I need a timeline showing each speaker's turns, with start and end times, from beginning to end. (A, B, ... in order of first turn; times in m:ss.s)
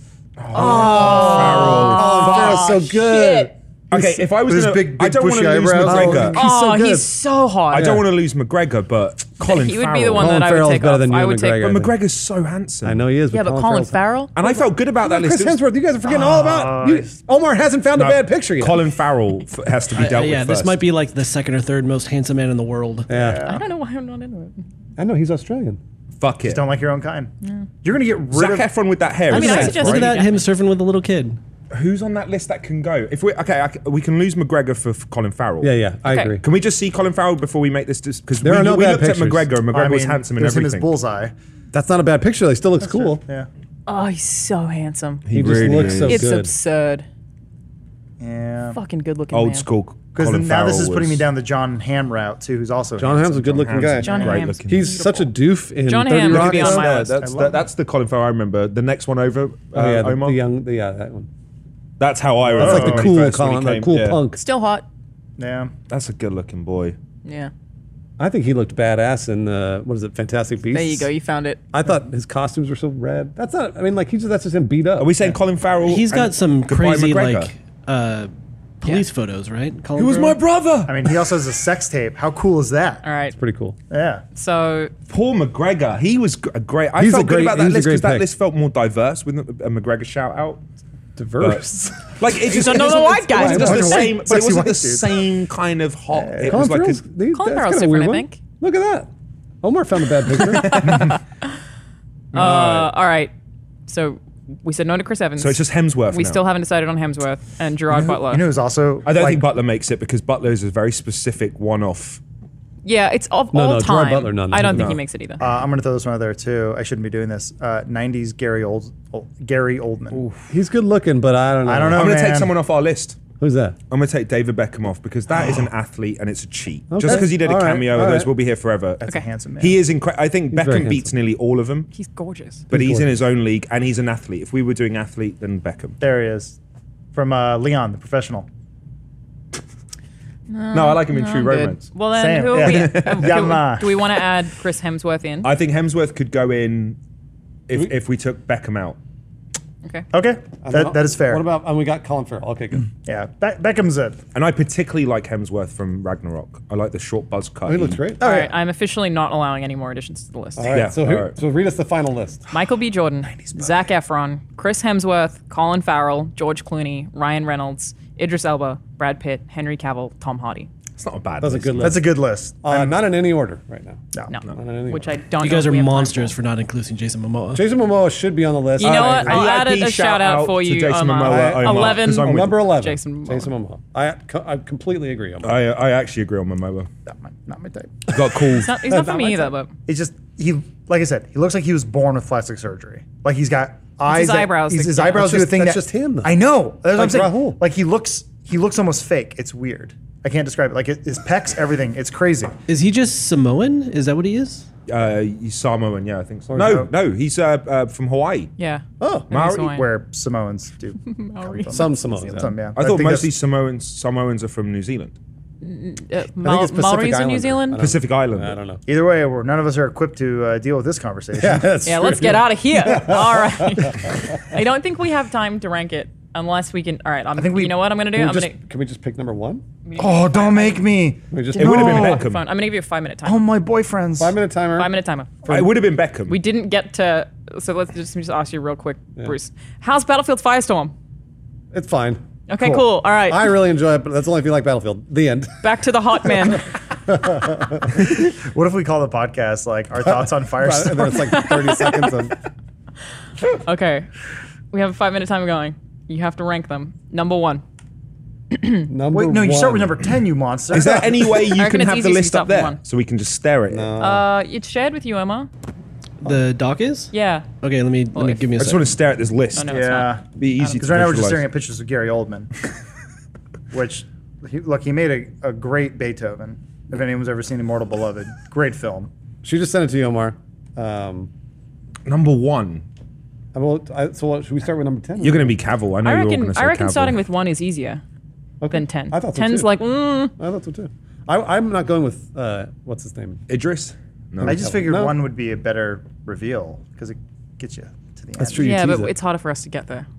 0:00.4-0:02.7 A
0:00.5-0:04.2 B
0:00.6-0:03.5 C
0:02.0-0:02.6 D
0:03.9-0:06.4 A
0:04.4-0:06.4 D
0:05.8-0:07.2 B
0:06.3-0:08.0 C
0:07.7-0:08.0 B
0:07.7-0:10.4 A
0:09.4-0:11.6 C
0:10.2-0:12.0 B
0:11.5-0:13.0 A
0:12.8-0:14.0 B
0:13.3-0:14.6 C
0:14.3-0:15.6 A
0:15.0-0:18.8 B
0:16.0-0:17.1 D
0:17.9-0:20.8 A
0:19.9-0:23.1 E
0:23.1-0:23.6 B
0:23.1-0:23.6 D
0:23.4-0:24.6 C
0:25.0-0:25.8 B
0:26.2-0:26.6 A
0:26.4-0:27.3 D
0:27.8-0:28.7 D
0:28.3-0:30.1 A
0:29.3-0:30.3 C
0:29.3-0:31.4 E
0:31.7-0:35.7 A
0:35.6-0:36.4 B
0:36.0-0:36.4 C
0:36.4-0:40.9 A
0:38.4-0:39.5 B
0:39.7-0:41.3 D
0:41.7-0:43.2 B
0:42.8-0:43.5 D
0:43.9-0:45.2 C
0:45.2-0:46.3 A
0:45.3-0:46.5 B
0:46.0-0:47.1 C
0:48.2-0:48.8 D
0:48.7-0:49.7 C
0:49.3-0:51.2 A
0:50.1-0:53.2 D
0:53.0-0:57.1 B
0:53.0-0:54.9 A
0:54.0-0:55.3 C
0:54.0-0:54.4 D
0:55.8-0:57.2 C
0:56.2-1:00.4 A
0:57.2-0:57.6 D
0:59.7-1:01.3 B
1:02.0-1:04.2 A
1:02.5-1:04.4 B
1:02.5-1:03.2 D
1:04.4-1:04.8 C
1:05.4-1:05.7 D
1:05.9-1:07.0 A
1:07.2-1:07.5 C
1:08.2-1:11.1 B
1:10.7-1:11.6 C
1:11.7-1:15.4 B
1:15.0-1:17.5 A
1:15.8-1:20.4 E
1:20.0-1:21.1 A
1:20.8-1:23.0 D
1:23.0-1:23.4 C
1:23.3-1:23.8 B
1:23.9-1:24.2 D
1:24.3-1:24.9 C
1:25.1-1:30.6 A
1:27.0-1:28.3 B
1:31.2-1:32.0 B
1:31.4-1:37.0 A
1:32.4-1:34.2 C
1:33.3-1:33.9 B
1:33.4-1:35.2 D
1:36.1-1:36.6 D
1:36.4-1:39.1 B
1:37.3-1:38.4 C
1:39.6-1:41.1 B
1:40.3-1:41.2 A
1:42.3-1:43.3 C
1:42.4-1:42.8 A
1:43.9-1:48.4 C
1:45.4-1:46.4 A
1:48.0-1:49.4 D
1:49.0-1:52.2 A
1:52.8-1:55.4 C
1:53.5-1:55.0 B
1:54.7-1:55.0 A
1:55.4-2:00.2 D
2:00.1-2:00.5 A
2:00.5-2:02.1 B
2:01.6-2:02.5 D
2:01.9-2:03.2 A
2:03.4-2:03.8 B
2:03.9-2:09.0 A
2:06.9-2:08.3 B
2:09.0-2:09.7 D
2:09.6-2:11.9 A
2:10.5-2:11.1 B
2:11.9-2:12.6 C
2:12.7-2:13.1 B
2:12.7-2:16.0 A
2:16.0-2:16.6 D
2:17.1-2:18.5 D
2:20.5-2:25.5 C
2:20.7-2:21.9 A
2:22.1-2:24.0 D
2:22.5-2:23.6 A
2:25.4-2:27.0 A
2:27.7-2:29.0 A
2:30.1-2:31.4 D
2:30.6-2:32.9 B
2:33.0-2:34.2 D
2:34.3-2:38.0 A
2:37.6-2:38.5 B
2:38.2-2:40.8 C
2:40.6-2:42.5 B
2:40.7-2:41.3 A
2:42.5-2:50.7 C
2:43.3-2:43.9 D
2:51.0-2:52.0 A
2:51.4-2:52.1 B
2:51.8-2:53.0 D
2:52.6-2:55.0 B
2:54.3-2:56.4 C
2:55.4-2:57.6 E
2:57.5-2:59.4 B
2:58.8-3:03.5 C
2:58.8-3:02.7 A
3:01.2-3:05.6 B
3:05.4-3:06.9 A
3:07.0-3:08.1 D
3:08.1-3:08.7 A
3:08.5-3:09.7 C
3:08.6-3:09.5 B
3:09.8-3:22.6 D
3:14.1-3:15.3 C
3:15.1-3:16.4 B
3:16.9-3:17.6 B
3:22.7-3:24.7 E
3:24.9-3:28.5 A
3:26.5-3:26.8 B
3:26.6-3:26.9 D
3:28.6-3:29.9 C
3:29.0-3:29.3 B
3:29.3-3:29.7 A
3:29.5-3:33.3 D
3:31.0-3:31.9 C
3:31.7-3:32.5 B
3:32.7-3:35.2 A
3:35.6-3:37.8 C
3:36.4-3:38.8 B
3:37.8-3:38.6 A
3:38.8-3:41.8 D
3:41.4-3:44.6 B
3:41.8-3:48.6 C
3:47.3-3:47.9 D
3:48.1-3:49.6 B
3:49.8-3:50.9 C
3:50.0-3:52.2 D
3:51.3-3:52.2 B
3:51.6-3:53.4 C
3:51.6-3:52.5 A
3:53.2-3:54.3 D
3:54.2-3:54.9 B
3:54.8-3:55.4 C
3:55.4-3:55.7 B
3:55.4-3:56.4 A
3:56.3-4:00.9 C
4:01.7-4:02.2 B
4:02.5-4:03.5 C
4:03.2-4:06.6 B
4:05.6-4:06.7 C
4:07.1-4:07.9 B
4:08.0-4:11.2 D
4:10.0-4:12.4 B
4:11.0-4:12.2 C
4:13.6-4:14.1 C
4:14.7-4:17.6 C
4:18.5-4:18.9 C
4:18.9-4:20.1 B
4:19.1-4:21.2 D
4:20.7-4:23.9 A
4:20.7-4:21.3 B
4:21.4-4:22.8 C
4:23.7-4:24.3 B
4:24.0-4:25.5 C
4:26.2-4:28.9 E
4:27.1-4:27.5 C
4:28.1-4:28.5 C
4:28.6-4:29.8 A
4:29.5-4:30.8 C
4:29.7-4:30.2 D
4:30.4-4:31.5 A
4:30.8-4:32.5 D
4:33.7-4:39.1 D
4:39.4-4:41.3 B
4:42.0-4:42.8 A
4:43.5-4:45.6 B
4:45.2-4:47.2 A
4:46.0-4:48.0 C
4:48.6-4:49.8 B
4:48.7-4:50.3 C
4:50.4-4:53.4 B
4:53.5-4:54.6 A
4:54.4-4:55.2 B
4:54.4-4:58.7 D
4:58.4-4:59.1 B
4:58.6-5:00.1 C